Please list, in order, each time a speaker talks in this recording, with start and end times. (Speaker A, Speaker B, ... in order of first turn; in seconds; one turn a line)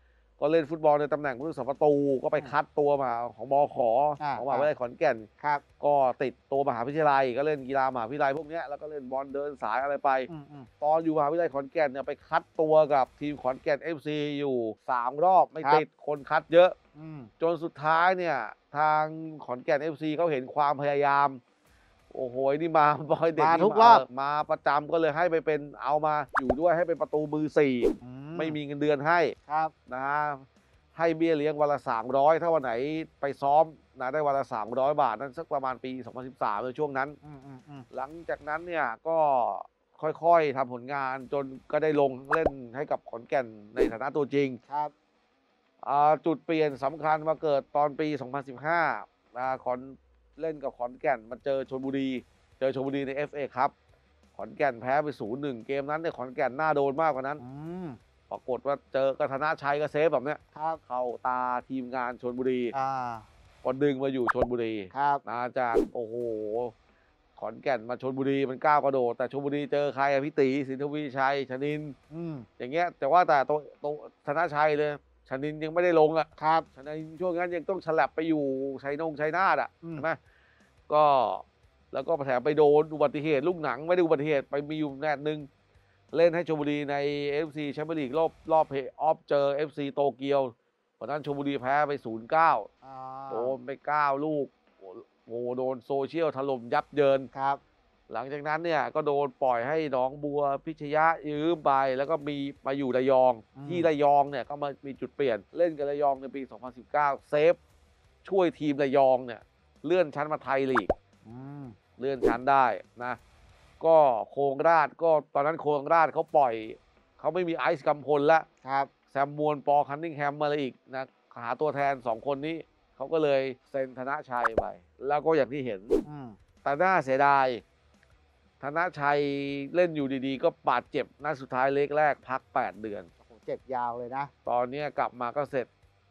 Speaker A: 0.4-5.3
Speaker B: 4.2-4.7
Speaker A: 5.8-10.3
Speaker B: 10.3-10.7
Speaker A: 10.8-16.8
Speaker B: 17.0-17.3
Speaker A: 17.4-21.4
Speaker A: 22.1-29.4
Speaker B: 23.4-24.0
Speaker B: 28.0-28.6
Speaker B: 29.5-29.7
Speaker A: 29.9-30.4
Speaker A: 31.0-37.2
Speaker B: 37.2-37.9
Speaker A: 37.9-44.6
Speaker B: 44.7-44.9
Speaker A: 45.8-53.7
Speaker A: 54.4-57.4
Speaker B: 57.4-58.0
Speaker A: 58.3-62.7
Speaker B: 60.5-60.8
Speaker B: 62.7-63.3
Speaker A: 63.6-66.7
Speaker B: 64.9-65.2
Speaker A: 67.4-72.0
Speaker B: 72.1-72.5
Speaker A: 72.6-80.2
Speaker B: 76.4-76.7
Speaker A: 80.9-85.5
Speaker A: 86.1-92.7
Speaker B: 92.8-93.5
Speaker A: 93.3-97.3
Speaker B: 97.3-97.6
Speaker A: 98.1-107.6
Speaker B: 103.6-103.9
Speaker A: 108.2-110.9
Speaker B: 111.2-111.8
Speaker A: 112.0-113.2
Speaker A: 113.8-118.5
Speaker B: 118.6-118.9
Speaker A: 119.1-126.0
Speaker B: 126.1-126.4
Speaker A: 126.6-127.6
Speaker A: 128.6-133.1
Speaker B: 133.2-134.3
Speaker A: 134.5-135.7